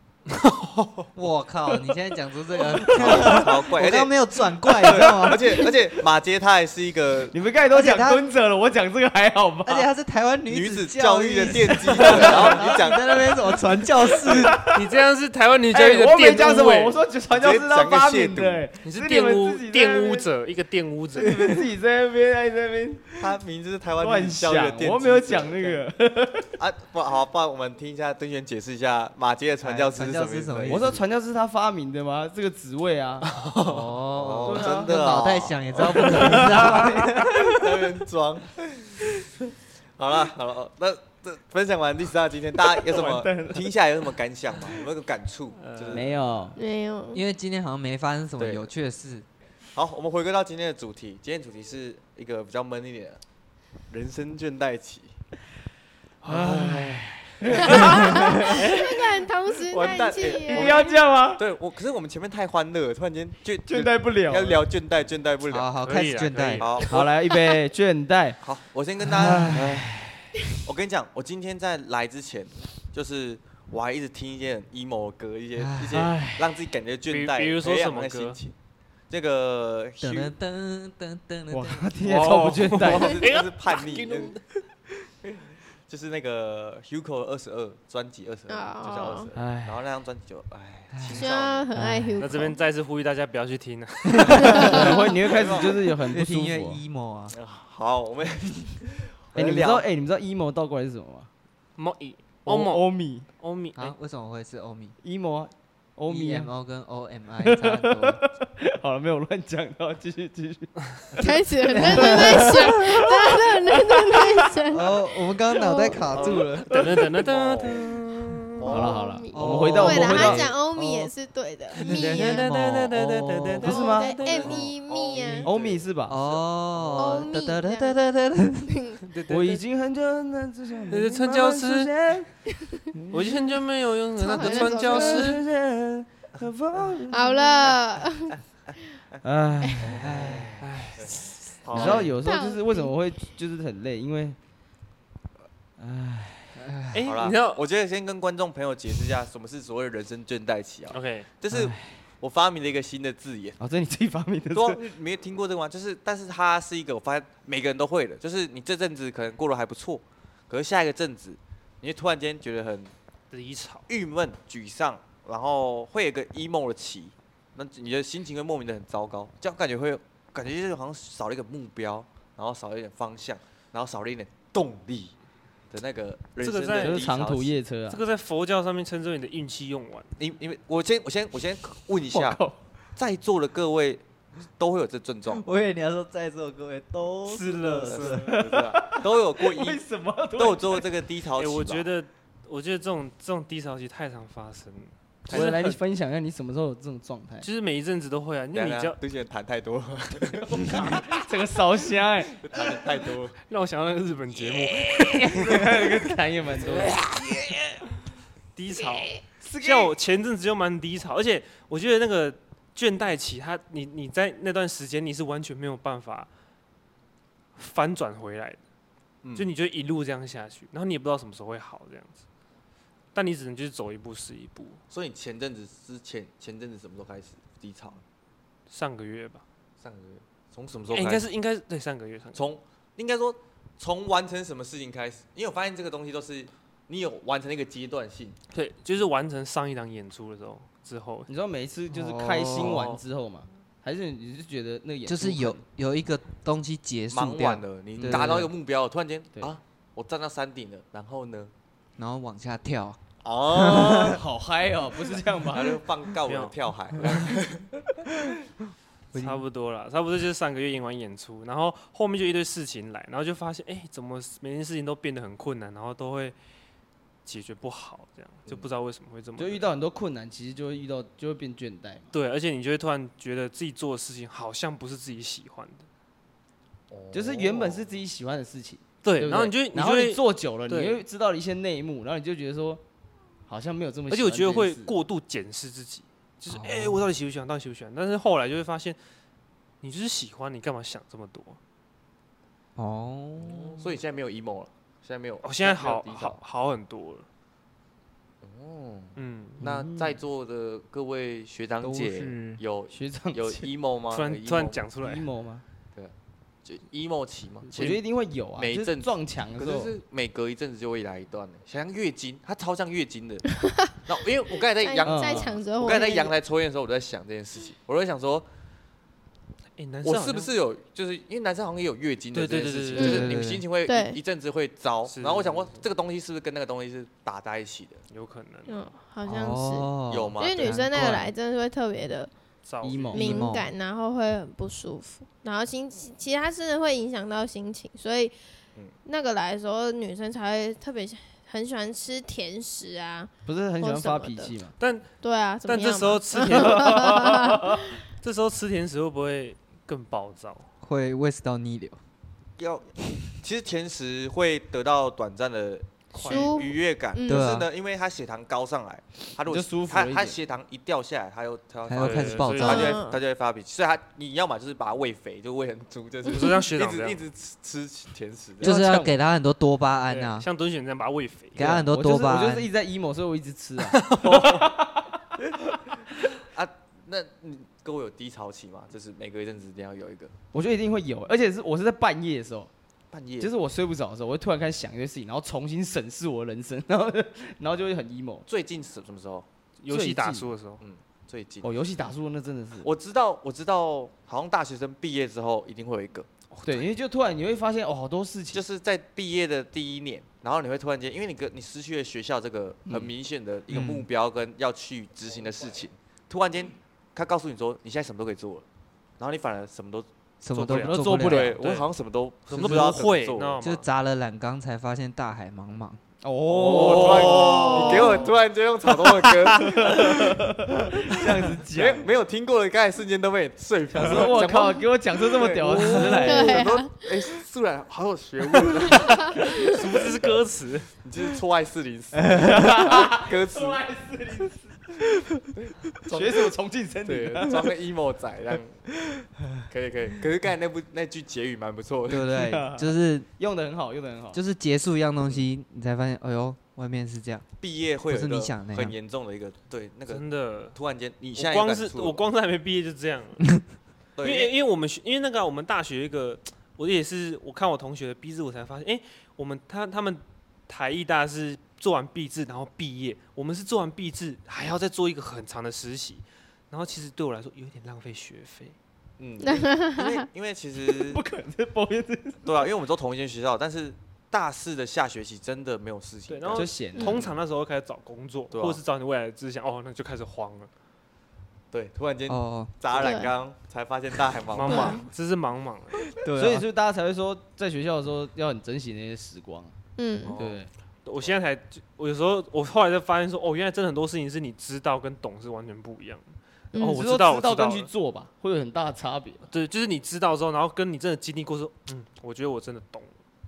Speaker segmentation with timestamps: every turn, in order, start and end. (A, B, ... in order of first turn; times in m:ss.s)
0:00.3-0:01.1 A
0:01.1-0:05.7 B
0:02.7-0:07.3 C
0:04.9-0:05.7 D
0:07.3-0:09.9 D
0:07.7-0:08.2 B
0:09.6-0:14.6 B
0:10.5-0:13.2 C
0:12.0-0:12.3 D
0:14.6-0:17.0 A
0:15.7-0:20.3 D
0:17.3-0:18.6 C
0:18.8-0:21.5 A
0:21.2-0:23.0 D
0:23.2-0:25.8 C
0:24.0-0:26.5 D
0:26.6-0:31.0 C
0:29.6-0:31.0 B
0:30.7-0:33.3 D
0:33.4-0:33.8 A
0:33.6-0:37.9 B
0:34.1-0:36.9 C
0:34.4-0:34.9 D
0:36.0-0:37.4 D
0:37.4-0:39.0 C
0:40.0-0:46.2 C
0:42.6-0:43.7 D
0:45.6-0:46.0 A
0:45.9-0:46.6 D
0:46.6-0:47.2 E
0:47.1-0:49.2 B
0:48.4-0:48.7 C
0:49.7-0:53.2 C
0:53.9-0:55.1 C
0:56.2-0:58.9 D
0:57.5-0:57.8 C
0:57.7-1:00.8 E
0:59.7-1:05.7 C
1:00.4-1:01.4 D
1:03.6-1:04.6 D
1:05.5-1:06.6 B
1:05.8-1:06.8 A
1:06.6-1:07.1 C
1:06.8-1:08.4 D
1:08.4-1:10.0 C
1:09.0-1:09.9 B
1:09.2-1:09.8 D
1:10.5-1:18.5 C
1:15.6-1:16.1 B
1:15.9-1:16.5 D
1:17.1-1:18.4 A
1:19.1-1:20.3 C
1:20.0-1:21.9 B
1:21.5-1:23.1 D
1:22.0-1:24.4 A
1:22.8-1:24.4 C
1:25.9-1:31.7 C
1:28.5-1:29.3 E
1:29.3-1:29.8 D
1:30.9-1:32.2 B
1:31.1-1:32.6 E
1:32.2-1:34.8 A
1:34.2-1:34.6 B
1:34.3-1:34.8 E
1:34.6-1:35.9 C
1:34.6-1:36.8 D
1:36.1-1:37.3 B
1:37.3-1:39.9 C
1:39.3-1:41.3 D
1:41.8-1:42.8 A
1:42.4-1:43.2 D
1:43.4-1:43.9 A
1:43.8-1:45.0 B
1:45.0-1:46.5 D
1:46.1-1:48.2 B
1:47.4-1:50.8 D
1:51.1-1:54.9 E
1:51.7-1:52.7 B
1:51.8-1:54.2 D
1:54.7-1:56.9 B
1:55.5-1:56.0 E
1:56.1-1:58.0 C
1:56.7-1:58.6 A
1:58.6-1:59.0 C
1:58.7-2:00.5 D
1:58.7-2:02.5 E
1:59.3-2:01.1 B
2:01.8-2:02.9 B
2:01.8-2:05.2 A
2:02.9-2:04.2 D
2:03.6-2:05.5 E
2:04.3-2:07.3 C
2:05.4-2:06.2 D
2:06.1-2:08.7 B
2:07.0-2:08.0 E
2:08.7-2:09.0 E
2:09.1-2:09.6 A
2:09.3-2:13.4 D
2:10.9-2:11.9 A
2:13.1-2:15.4 A
2:14.2-2:15.4 E
2:14.3-2:17.7 D
2:17.1-2:18.4 E
2:18.3-2:19.2 C
2:19.2-2:20.3 D
2:19.8-2:22.1 C
2:19.9-2:20.6 B
2:20.6-2:22.1 A
2:21.7-2:24.4 D
2:21.7-2:22.9 E
2:25.8-2:26.6 D
2:26.6-2:26.9 B
2:26.9-2:27.6 A
2:27.0-2:33.6 C
2:30.9-2:31.3 A
2:31.5-2:32.0 D
2:33.6-2:34.8 D
2:34.5-2:42.9 C
2:43.3-2:43.8 A
2:43.9-2:55.1 C
2:55.7-2:57.6 C
2:56.4-2:57.1 A
2:56.8-2:58.0 D
2:57.9-3:00.1 A
3:00.2-3:02.4 C
3:02.1-3:02.6 D
3:03.0-3:04.0 C
3:04.6-3:05.4 C
3:05.2-3:08.3 B
3:07.3-3:08.3 A
3:07.9-3:09.8 C
3:08.2-3:10.9 D
3:10.4-3:11.9 C
3:11.4-3:15.8 A
3:15.2-3:17.5 D
3:15.3-3:15.6 C
3:17.4-3:19.0 A
3:18.5-3:20.9 C
3:20.4-3:22.4 D
3:22.3-3:23.4 C
3:23.5-3:25.7 A
3:24.9-3:27.6 D
3:28.5-3:36.3 A
3:29.4-3:30.0 D
3:37.6-3:38.6 A
3:39.2-3:39.5 C
3:39.3-3:42.2 A
3:43.1-3:44.8 A
3:44.9-3:48.0 C
3:48.7-3:49.4 A
3:49.8-3:51.2 C
3:50.9-3:52.5 A
3:52.3-3:58.4 C
3:58.5-4:01.3 A
4:01.3-4:05.6 D
4:01.9-4:02.9 B
4:02.6-4:03.0 C
4:05.1-4:08.4 B
4:07.1-4:11.5 C
4:08.0-4:08.5 D
4:12.0-4:13.0 B
4:13.2-4:14.2 C
4:13.5-4:14.2 B
4:14.1-4:15.8 D
4:15.5-4:17.8 C
4:16.2-4:16.6 A
4:19.1-4:19.4 B
4:19.1-4:26.4 A
4:27.2-4:29.6 A
4:29.4-4:32.1 D
4:32.1-4:35.9 A
4:36.9-4:37.9 C
4:37.1-4:42.8 D
4:39.0-4:41.0 A
4:43.5-4:44.9 D
4:44.1-4:49.0 A
4:46.5-4:47.0 B
4:49.8-4:51.6 A
4:52.8-4:53.8 B
4:53.8-4:56.4 C
4:55.4-4:57.2 A
4:58.4-5:04.8 C
4:59.2-4:59.6 A
4:59.6-5:00.2 D
5:01.8-5:02.6 B
5:02.9-5:03.7 D
5:04.1-5:05.2 A
5:05.0-5:05.6 D
5:06.6-5:08.0 C
5:07.7-5:09.9 D
5:08.6-5:13.4 C
5:13.5-5:14.0 E
5:14.0-5:18.5 C
5:14.8-5:16.3 E
5:15.0-5:15.5 D
5:19.8-5:20.5 A
5:20.0-5:28.0 C
5:22.3-5:23.3 A
5:23.0-5:23.3 E
5:23.0-5:23.7 B
5:23.8-5:24.2 E
5:25.1-5:25.8 A
5:28.1-5:28.9 A
5:28.7-5:32.3 E
5:29.2-5:31.2 B
5:30.1-5:31.2 C
5:32.6-5:33.2 A
5:32.8-5:33.5 D
5:33.1-5:38.3 E
5:33.1-5:33.7 B
5:39.0-5:44.5 E
5:43.4-5:44.7 D
5:44.8-5:45.1 A
5:45.2-5:47.8 E
5:45.6-5:47.2 A
5:46.4-5:47.8 D
5:48.2-5:50.7 A
5:50.8-5:52.0 B
5:52.6-6:08.8 C
5:56.1-5:57.6 E
5:56.1-5:56.7 A
5:57.2-5:57.7 B
5:59.5-6:00.4 D
6:01.8-6:03.0 B
6:02.0-6:02.9 A
6:02.6-6:03.2 E
6:06.3-6:07.2 A
6:08.6-6:09.1 D
6:08.6-6:10.5 B
6:10.1-6:11.7 A
6:11.6-6:12.7 B
6:11.6-6:15.2 D
6:13.8-6:14.6 A
6:16.4-6:20.3 C
6:20.5-6:22.7 D
6:23.1-6:23.5 C
6:23.4-6:28.4 D
6:28.5-6:29.4 C
6:29.8-6:30.8 A
6:29.9-6:30.5 D
6:30.8-6:31.7 C
6:31.6-6:32.9 D
6:32.8-6:36.3 C
6:36.6-6:38.6 D
6:38.5-6:48.6 C
6:43.7-6:44.1 B
6:49.2-6:53.6 C
6:50.4-6:51.6 B
6:50.5-6:51.9 A
6:50.8-6:51.5 D
6:52.5-6:53.8 A
6:53.6-6:56.0 B
6:56.2-6:58.3 D
6:56.5-7:00.1 C
6:59.6-7:02.1 D
7:01.7-7:10.3 C
7:03.9-7:06.6 D
7:06.2-7:07.0 E
7:09.1-7:09.6 E
7:09.5-7:10.9 A
7:11.0-7:13.8 C
7:12.5-7:15.0 D
7:15.6-7:18.8 C
7:16.1-7:17.7 D
7:19.6-7:22.3 C
7:22.1-7:23.3 B
7:22.3-7:24.4 D
7:24.3-7:27.4 B
7:27.6-7:30.2 C
7:28.1-7:29.0 B
7:30.1-7:30.8 A
7:30.7-7:32.2 C
7:31.3-7:33.6 A
7:34.2-7:34.5 C
7:34.2-7:48.8 A
7:49.2-7:51.2 C
7:49.4-7:50.3 E
7:50.9-7:52.4 D
7:52.4-7:57.3 C
7:56.3-8:00.7 A
7:56.5-7:57.2 D
7:58.5-7:58.8 C
8:01.7-8:05.0 C
8:02.3-8:02.7 B
8:02.9-8:03.3 E
8:04.5-8:06.0 A
8:04.6-8:05.0 E
8:06.2-8:06.6 B
8:06.4-8:09.8 D
8:10.0-8:10.4 E
8:10.2-8:10.6 C
8:10.4-8:10.7 D
8:11.0-8:17.9 A
8:16.7-8:17.0 E
8:16.8-8:19.4 D
8:19.5-8:23.1 A